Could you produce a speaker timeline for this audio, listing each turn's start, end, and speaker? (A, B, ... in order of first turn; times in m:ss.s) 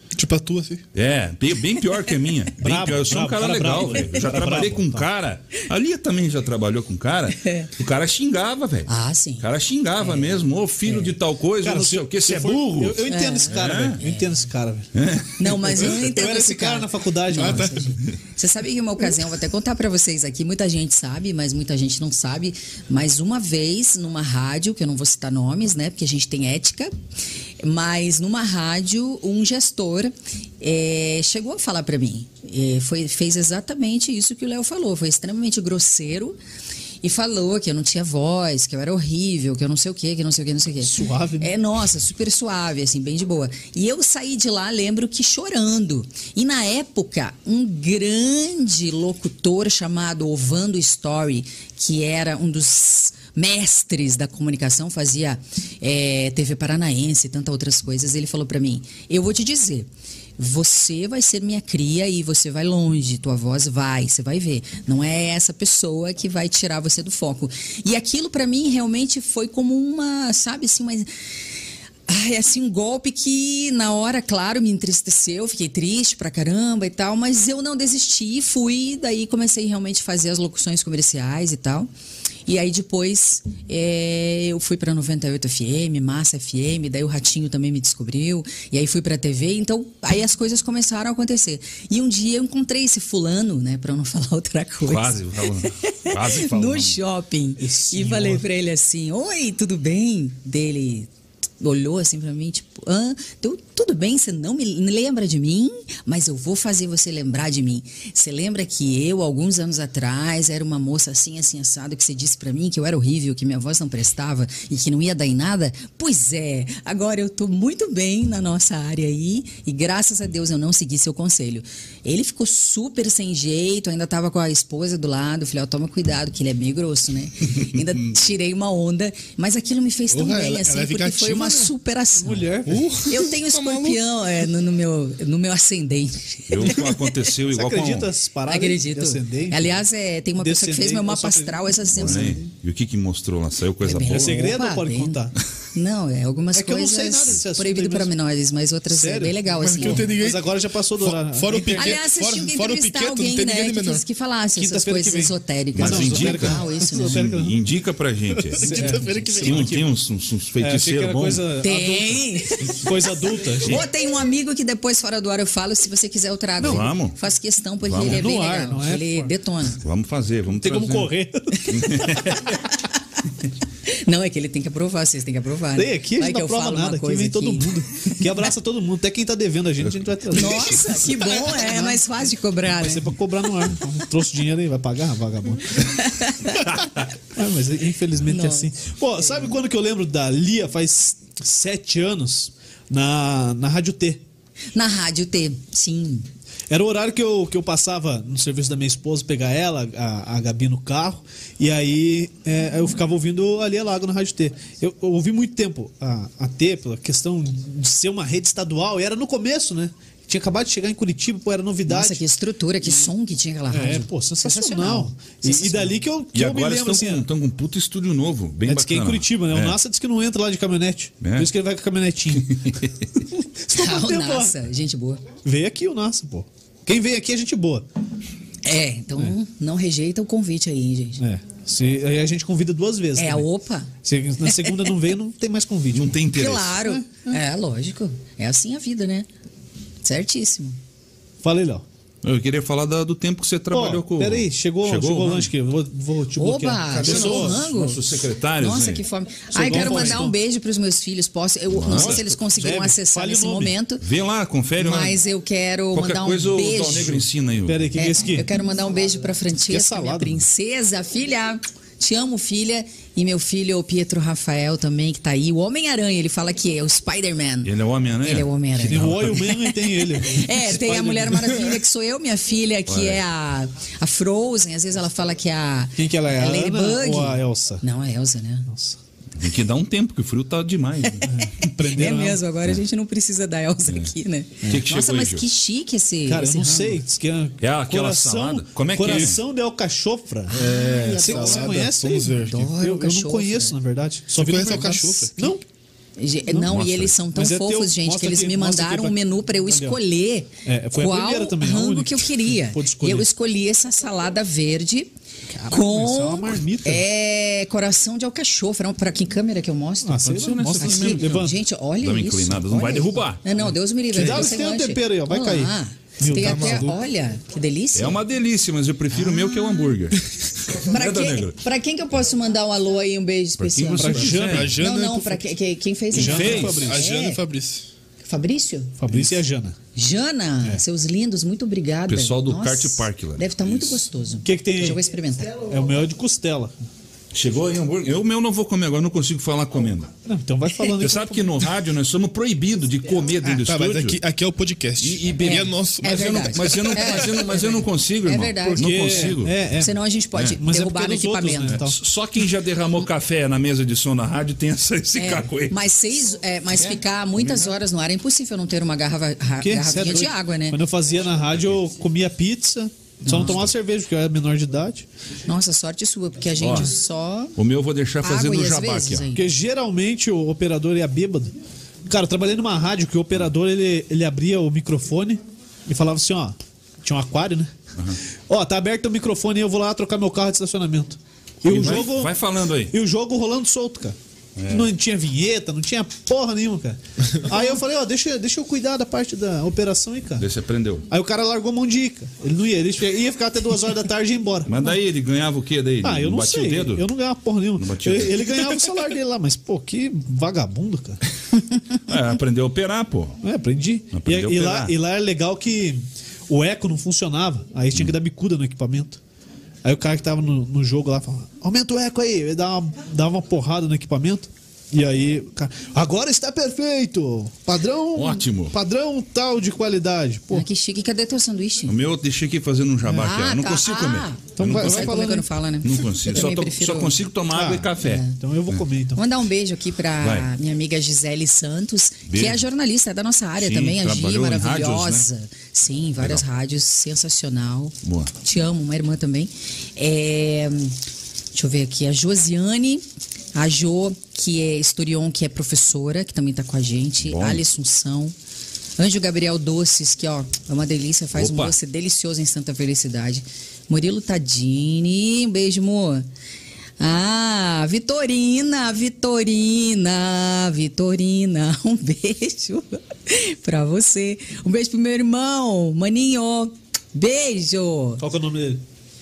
0:00.2-0:00.8 A
0:01.0-0:08.9 B
0:02.6-0:05.1 C
0:07.4-0:07.7 D
0:08.9-0:09.5 D
0:09.4-0:14.0 B
0:10.0-0:11.1 D
0:11.6-0:14.9 C
0:13.1-0:14.4 D
0:14.9-0:15.9 B
0:15.4-0:26.9 D
0:15.7-0:17.9 C
0:17.4-0:17.7 A
0:27.6-0:36.4 D
0:37.0-1:11.1 D
0:40.8-0:41.5 C
1:12.1-1:21.9 D
1:22.5-1:41.1 D
1:34.8-1:37.0 B
1:37.6-1:38.4 C
1:41.6-2:12.5 D
2:10.1-2:11.7 A
2:12.2-2:12.9 C
2:12.6-2:14.0 A
2:13.0-2:17.1 D
2:16.5-2:18.1 B
2:17.5-2:19.8 C
2:18.5-2:22.5 D
2:20.4-2:22.3 C
2:22.0-2:24.4 B
2:23.8-2:30.1 D
2:23.9-2:25.4 C
2:26.5-2:28.1 C
2:28.9-2:32.0 C
2:29.5-2:34.0 A
2:31.8-2:37.2 D
2:34.6-2:37.6 C
2:35.8-2:41.6 B
2:38.4-2:39.9 A
2:38.6-2:39.6 C
2:38.7-2:39.7 D
2:40.6-2:43.8 C
2:41.6-2:49.8 D
2:46.6-2:46.9 C
2:46.6-2:47.2 B
2:47.8-2:48.2 B
2:48.0-2:49.3 C
2:49.8-2:51.1 B
2:50.5-2:52.5 C
2:51.7-2:52.6 D
2:51.7-2:52.6 B
2:53.9-2:58.2 D
2:55.8-3:02.0 C
2:59.8-3:00.7 B
3:00.3-3:03.2 D
3:02.8-3:06.0 C
3:05.8-3:06.8 D
3:06.6-3:07.0 B
3:07.3-3:14.2 C
3:08.3-3:09.5 D
3:14.7-3:16.3 D
3:16.7-3:32.2 C
3:31.9-3:36.0 D
3:33.7-3:37.2 C
3:36.3-3:39.8 B
3:38.7-3:42.8 C
3:41.2-3:41.5 B
3:42.3-3:42.9 B
3:43.3-3:44.5 C
3:43.7-3:45.2 D
3:45.4-3:47.9 C
3:48.6-3:51.2 D
3:51.2-3:53.5 C
3:53.2-3:53.9 D
3:54.0-3:56.2 C
3:54.4-3:54.9 D
3:55.9-3:56.8 B
3:56.3-3:59.3 D
4:00.0-4:00.8 D
4:01.4-4:01.8 C
4:02.2-4:05.5 B
4:03.7-4:07.6 C
4:06.4-4:08.0 D
4:06.9-4:09.0 B
4:08.6-4:14.0 D
4:09.5-4:10.4 C
4:09.7-4:10.2 B
4:11.7-4:12.2 B
4:11.9-4:13.8 C
4:14.0-4:15.2 B
4:14.8-4:17.3 D
4:15.9-4:17.9 B
4:17.7-4:18.5 C
4:17.9-4:27.7 D
4:19.7-4:20.4 C
4:27.6-4:29.6 B
4:28.2-4:38.7 D
4:28.8-4:31.8 C
4:32.9-4:33.2 B
4:36.0-4:37.8 C
4:38.7-4:39.0 C
4:39.4-4:41.3 B
4:41.1-4:47.0 D
4:41.3-4:42.4 C
4:44.7-4:45.4 B
4:46.3-4:55.6 C
4:47.6-4:49.4 B
4:50.5-4:53.8 D
4:50.5-4:52.7 A
4:54.3-4:55.4 A
4:56.2-5:05.1 D
4:56.6-4:57.2 B
4:57.3-5:00.0 C
5:00.6-5:03.3 C
5:05.5-5:07.0 C
5:05.7-5:18.2 D
5:10.0-5:11.6 C
5:10.2-5:13.4 B
5:14.1-5:16.9 C
5:14.2-5:14.5 A
5:16.2-5:17.0 A
5:18.0-5:21.6 B
5:19.1-5:20.0 D
5:20.8-5:27.4 D
5:23.6-5:24.7 B
5:24.0-5:24.8 C
5:24.4-5:25.4 A
5:26.1-5:27.0 C
5:26.2-5:27.9 A
5:26.2-5:26.8 B
5:28.2-5:29.4 D
5:29.0-5:29.8 C
5:30.0-5:35.6 D
5:32.1-5:34.0 B
5:34.4-5:35.0 C
5:35.6-5:36.8 C
5:37.3-5:40.1 B
5:40.2-5:41.5 C
5:41.0-5:44.2 B
5:43.4-5:46.9 A
5:45.0-5:49.6 B
5:45.4-5:51.8 D
5:48.8-5:50.0 C
5:50.6-5:52.0 C
5:51.7-5:55.8 B
5:55.2-6:00.8 D
5:59.6-6:05.1 C
6:03.3-6:03.6 D
6:03.3-6:03.7 B
6:05.5-6:07.6 D
6:06.6-6:06.9 B
6:07.6-6:09.3 B
6:08.2-6:09.5 D
6:09.4-6:11.5 C
6:12.1-6:17.7 C
6:18.5-6:22.3 C
6:21.7-6:22.9 B
6:22.9-6:24.2 C
6:24.6-6:24.9 B
6:24.7-6:30.4 C
6:30.4-6:31.1 B
6:31.1-6:34.7 C
6:34.7-6:37.1 B
6:36.0-6:41.2 C
6:37.8-6:38.8 B
6:42.1-6:43.4 B
6:43.4-6:49.2 C
6:44.1-6:45.0 B
6:49.8-7:00.7 C
6:58.1-6:58.8 B
7:00.5-7:02.0 D
7:01.9-7:08.8 B
7:03.1-7:07.2 D
7:04.6-7:05.5 C
7:07.5-7:09.2 C
7:08.0-7:08.4 D
7:09.2-7:21.0 D
7:10.2-7:10.5 B
7:12.3-7:12.6 B
7:13.6-7:15.3 B
7:16.2-7:16.4 B
7:18.0-7:18.3 B
7:21.5-7:28.4 D
7:27.2-7:27.6 B
7:29.0-7:36.3 D
7:31.4-7:31.8 B
7:37.0-7:48.2 D
7:48.2-7:48.8 C